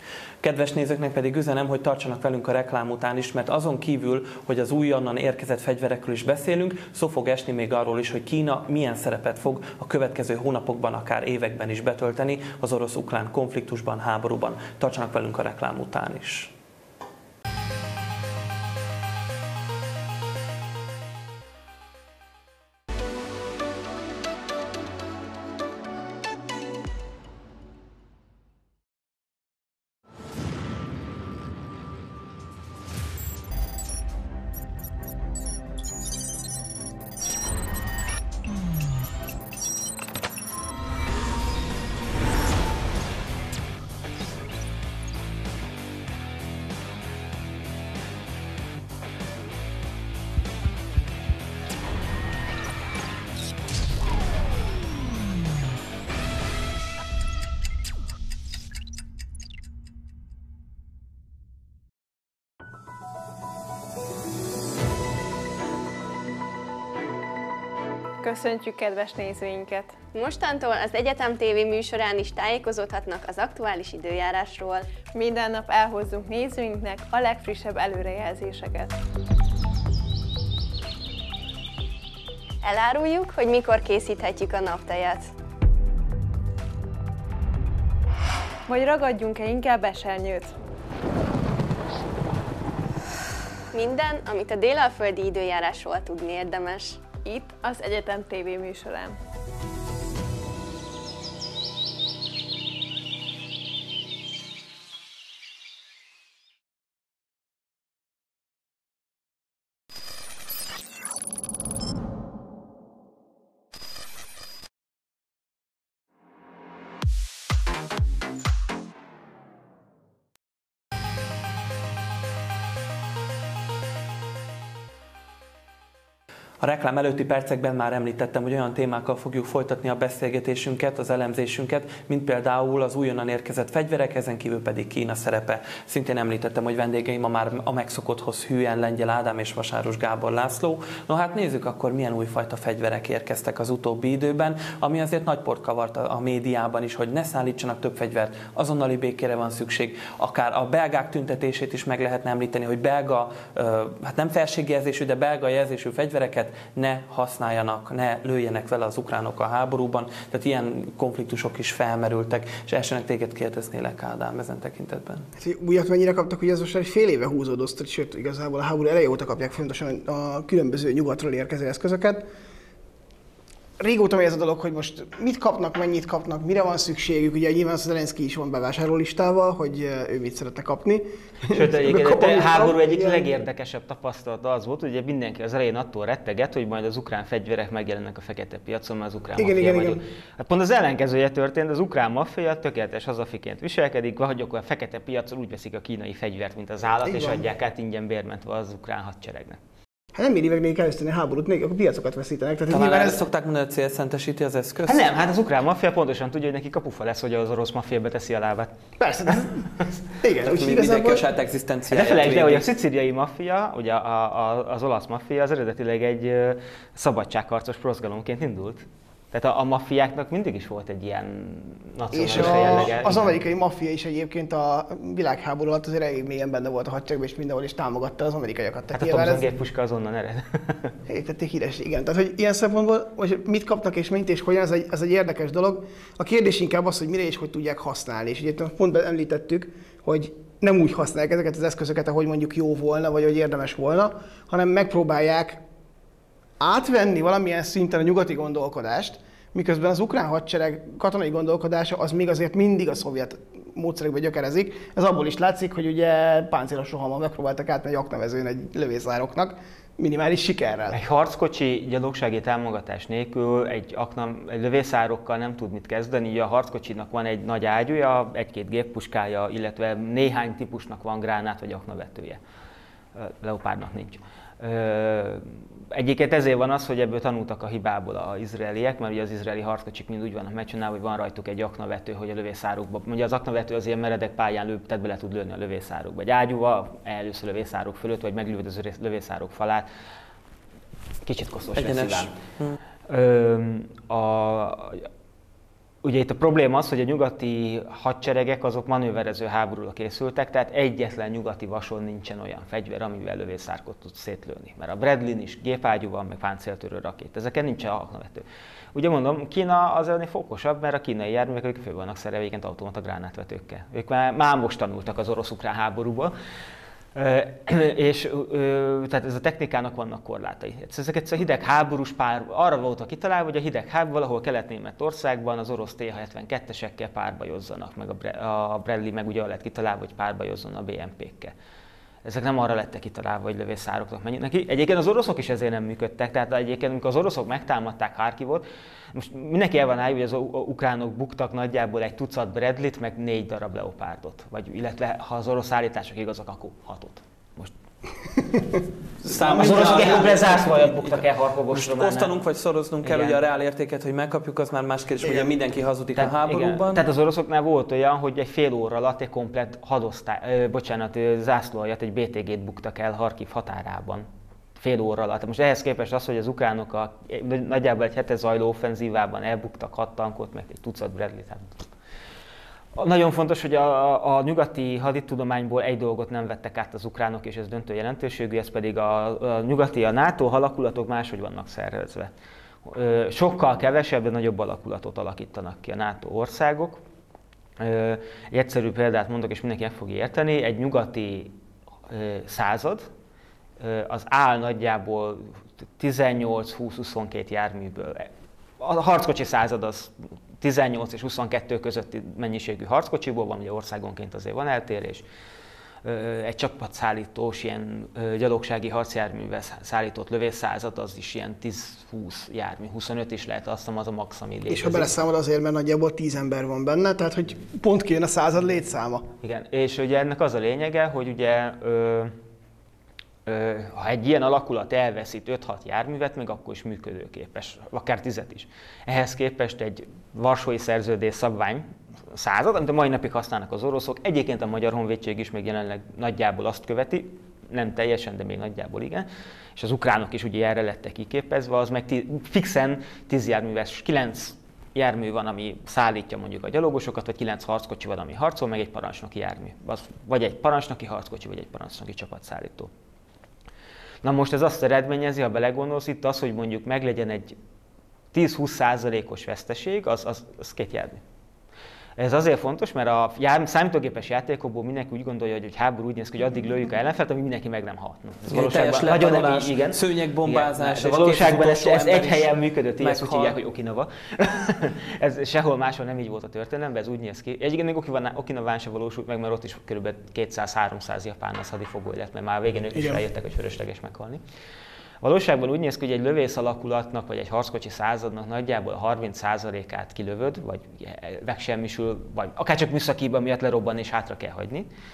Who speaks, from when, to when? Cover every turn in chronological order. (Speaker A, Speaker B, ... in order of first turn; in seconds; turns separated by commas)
Speaker A: 0.4-16.5, Speaker B: 68.2-70.0, Speaker C: 70.1-74.9, Speaker B: 75.1-78.9, Speaker C: 82.6-85.3, Speaker B: 88.7-90.5, Speaker C: 93.7-97.1, Speaker B: 97.2-99.2, Speaker A: 126.6-165.2, Speaker D: 165.4-172.2, Speaker D: 173.8-183.3, Speaker E: 181.4-199.6, Speaker D: 189.4-190.0, Speaker D: 197.0-197.4, Speaker D: 200.1-203.2, Speaker A: 202.7-205.1, Speaker E: 204.8-208.7, Speaker D: 209.0-209.7, Speaker E: 209.3-209.9, Speaker D: 210.2-211.2, Speaker A: 210.5-212.7, Speaker E: 211.9-223.4, Speaker D: 222.1-229.4, Speaker E: 228.9-230.9, Speaker D: 231.1-245.6, Speaker D: 246.6-261.0, Speaker E: 260.9-272.4, Speaker E: 273.1-289.9, Speaker E: 291.2-292.3, Speaker A: 291.7-292.8, Speaker E: 293.1-295.1, Speaker E: 296.0-316.3, Speaker E: 317.1-331.5, Speaker E: 332.2-347.7, Speaker A: 349.2-357.1, Speaker D: 349.4-350.0, Speaker E: 349.4-352.3, Speaker E: 353.0-353.4, Speaker D: 355.2-355.5, Speaker E: 356.1-364.2, Speaker E: 364.8-371.9, Speaker E: 372.9-382.3, Speaker E: 382.8-387.0, Speaker E: 387.8-391.5, Speaker E: 392.1-393.1, Speaker E: 393.8-398.3, Speaker E: 398.8-405.2, Speaker E: 406.0-415.1, Speaker D: 414.7-419.3, Speaker E: 419.4-422.3, Speaker E: 423.4-452.9, Speaker E: 454.2-457.6, Speaker E: 458.3-461.2, Speaker E: 462.2-484.4, Speaker A: 468.5-473.6, Speaker D: 482.9-483.2, Speaker E: 485.2-494.9